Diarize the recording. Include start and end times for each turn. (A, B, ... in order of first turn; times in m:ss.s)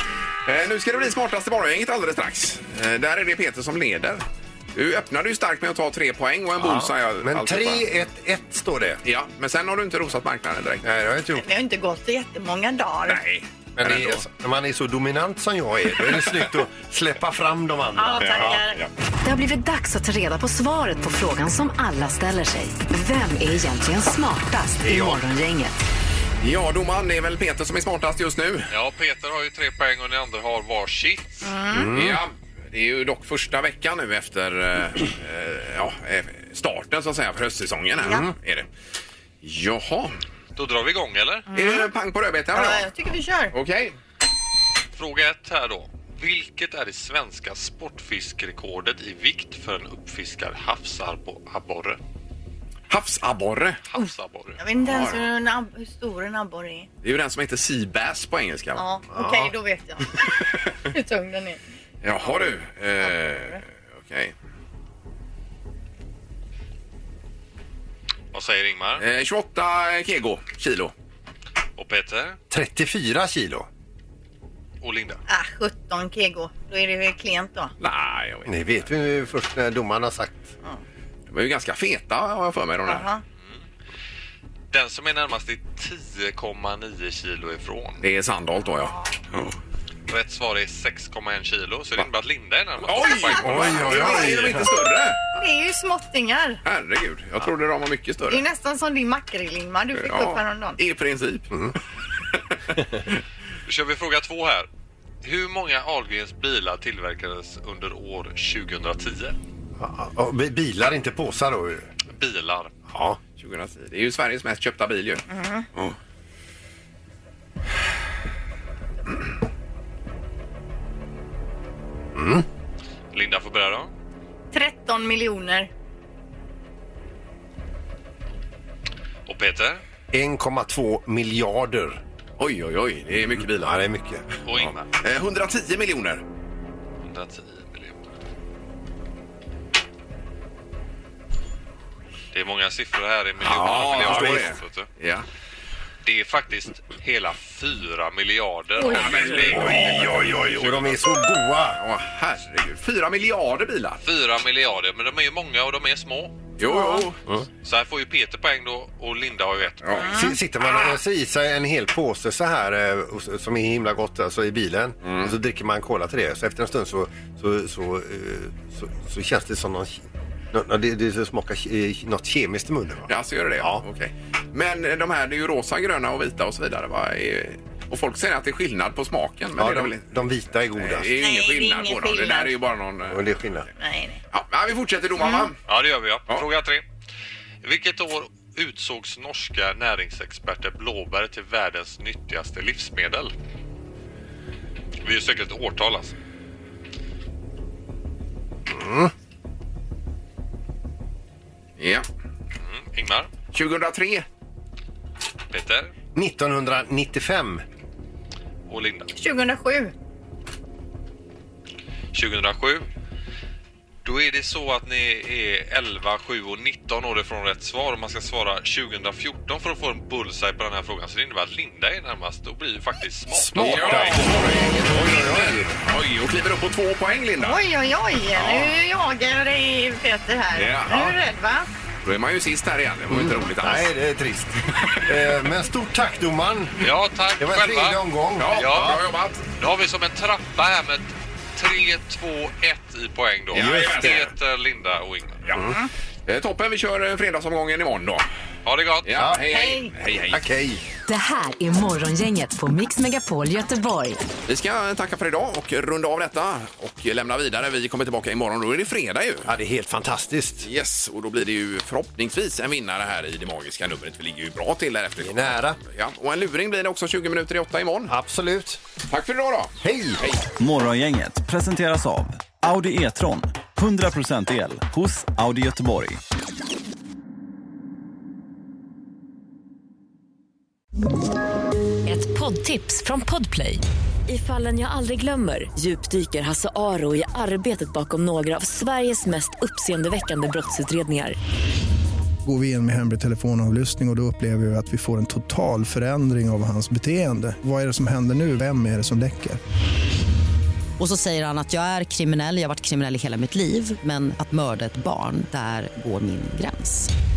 0:00.4-0:04.2 A
0:04.7-0:07.8 A
0:06.6-0:09.0 B
0:09.0-0:10.8 A
0:10.8-0:11.4 B
0:11.3-0:13.2 C
0:13.1-0:14.2 A
0:13.8-0:18.6 B
0:18.0-0:18.8 C
0:18.2-0:18.9 A
0:19.2-0:25.8 D
0:24.8-0:25.2 B
0:26.4-0:28.7 A
0:28.7-0:31.5 E
0:31.4-0:31.9 C
0:31.7-0:32.2 B
0:31.9-0:38.7 A
0:38.0-0:38.3 B
0:39.4-0:40.2 A
0:40.6-0:41.4 E
0:41.5-0:41.9 C
0:41.5-0:42.9 A
0:42.5-0:43.5 C
0:43.5-0:43.9 A
0:44.9-0:52.0 E
0:52.9-0:53.8 A
0:53.9-0:54.6 E
0:53.9-0:56.9 C
0:54.8-0:55.3 A
0:57.0-0:58.8 A
0:58.8-1:01.6 C
0:59.1-0:59.5 B
1:02.0-1:04.3 A
1:08.3-1:09.0 E
1:09.0-1:10.9 A
1:11.8-1:12.4 E
1:12.5-1:13.7 B
1:14.8-1:15.2 E
1:15.3-1:17.7 C
1:17.8-1:18.8 A
1:18.4-1:20.5 B
1:21.3-1:23.1 A
1:22.9-1:23.2 C
1:24.7-1:28.0 E
1:28.0-1:29.5 A
1:28.8-1:29.1 C
1:30.1-1:34.0 E
1:32.8-1:35.2 A
1:33.3-1:34.1 C
1:33.4-1:34.7 B
1:35.4-1:36.6 C
1:36.6-1:38.4 A
1:38.3-1:40.8 C
1:39.9-1:41.6 A
1:43.6-1:44.7 E
1:45.2-1:49.4 E
1:49.8-1:51.8 B
1:52.1-1:52.7 E
1:52.9-1:53.2 B
1:53.4-1:55.2 A
1:55.3-1:55.7 C
2:02.1-2:02.4 B
2:03.1-2:03.9 E
2:04.5-2:05.7 C
2:09.3-2:09.8 E
2:10.1-2:12.0 B
2:12.4-2:13.8 A
2:13.4-2:14.2 B
2:14.4-2:14.8 E
2:14.5-2:16.2 A
2:17.0-2:18.1 E
2:22.3-2:24.9 E
2:23.4-2:25.2 A
2:23.7-2:24.4 B
2:26.0-2:30.7 E
2:28.8-2:29.2 C
2:28.8-2:34.0 A
2:29.3-2:31.8 B
2:34.0-2:36.5 E
2:36.6-2:37.2 A
2:36.6-2:37.1 C
2:37.6-2:40.1 E
2:39.8-2:40.1 A
2:40.0-2:40.4 C
2:40.1-2:53.8 B
2:45.0-2:45.3 A
2:53.1-3:00.0 A
2:59.6-3:01.1 B
3:00.7-3:03.3 A
3:01.2-3:02.6 C
3:03.1-3:03.7 B
3:03.8-3:04.2 C
3:04.3-3:05.6 A
3:05.2-3:05.5 C
3:05.7-3:06.8 E
3:07.6-3:13.3 E
3:15.0-3:16.2 E
3:18.7-3:19.1 B
3:21.8-3:22.1 A
3:22.6-3:23.3 E
3:23.5-3:24.2 A
3:25.5-3:25.9 E
3:26.1-3:27.6 B
3:28.7-3:29.1 E
3:29.2-3:29.9 C
3:32.1-3:32.9 E
3:34.0-3:44.3 E
3:43.3-3:45.7 B
3:43.4-3:47.6 A
3:47.4-3:51.7 C
3:48.3-3:48.7 A
3:50.6-3:51.1 A
3:52.0-3:53.9 A
3:53.1-3:56.9 B
3:56.8-3:59.0 E
3:57.4-3:59.0 B
3:58.4-3:59.4 A
3:59.6-4:05.4 E
4:03.5-4:04.3 A
4:03.5-4:04.2 B
4:06.3-4:08.2 A
4:08.6-4:09.2 E
4:09.0-4:10.4 A
4:09.1-4:09.4 B
4:09.5-4:09.9 C
4:10.3-4:10.8 B
4:11.1-4:14.2 D
4:14.5-4:19.5 A
4:19.4-4:20.7 B
4:20.6-4:28.1 A
4:25.2-4:25.8 B
4:28.1-4:28.8 B
4:29.1-4:30.5 A
4:29.8-4:30.2 B
4:30.6-4:36.2 F
4:42.2-4:43.5 D
4:43.3-4:43.8 G
4:44.3-4:51.3 G
4:52.4-4:59.6 H
5:01.0-5:07.1 I